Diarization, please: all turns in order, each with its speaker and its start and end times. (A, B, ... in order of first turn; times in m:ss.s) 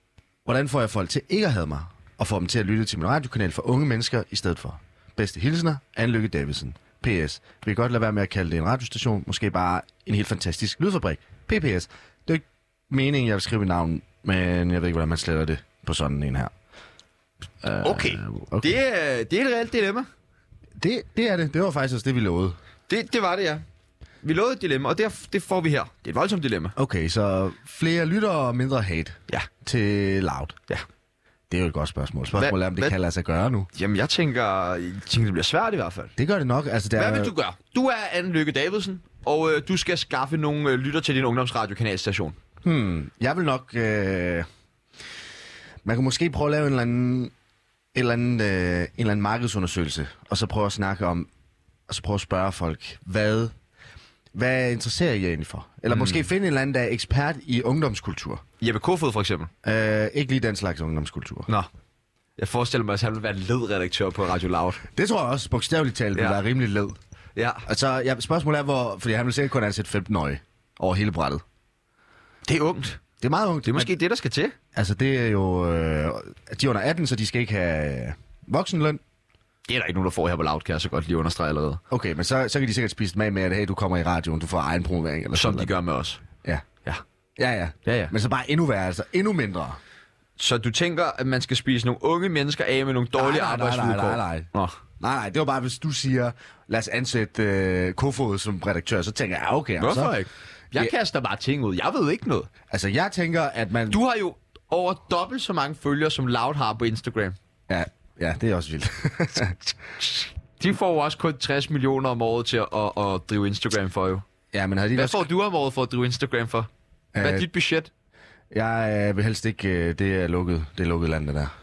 0:00.4-0:16.5 A
0:17.6-0:18.8 A
0:17.8-0:20.1 B
0:20.8-0:22.6 A
0:22.9-0:23.6 B
0:24.2-0:26.8 B
0:26.8-0:30.6 A
0:31.5-0:33.7 A
0:32.4-0:33.0 B
0:33.8-0:36.1 B
0:36.2-0:37.3 A
0:37.0-0:42.4 B
0:42.6-0:44.5 A
0:45.8-0:47.3 A
0:48.0-0:51.3 A
0:51.9-0:53.5 A
0:54.3-0:58.4 A
0:55.9-0:56.2 B
0:58.6-0:59.5 B
0:59.6-1:01.5 A
1:02.4-1:04.8 B
1:04.9-1:07.0 A
1:07.4-1:07.7 B
1:07.6-1:11.4 A
1:12.5-1:13.0 B
1:13.2-1:13.9 A
1:13.6-1:14.6 B
1:14.7-1:19.0 A
1:19.7-1:21.8 B
1:21.9-1:25.7 A
1:25.3-1:26.2 B
1:27.4-1:29.8 A
1:27.8-1:28.1 B
1:30.4-1:34.8 B
1:33.1-1:34.5 A
1:35.0-1:40.2 A
1:39.8-1:42.5 B
1:42.7-1:44.0 A
1:43.9-1:47.4 B
1:47.7-1:49.6 A
1:50.0-1:54.2 B
1:54.5-1:55.3 A
1:54.9-1:57.9 B
1:57.1-1:57.5 A
1:58.5-2:01.5 A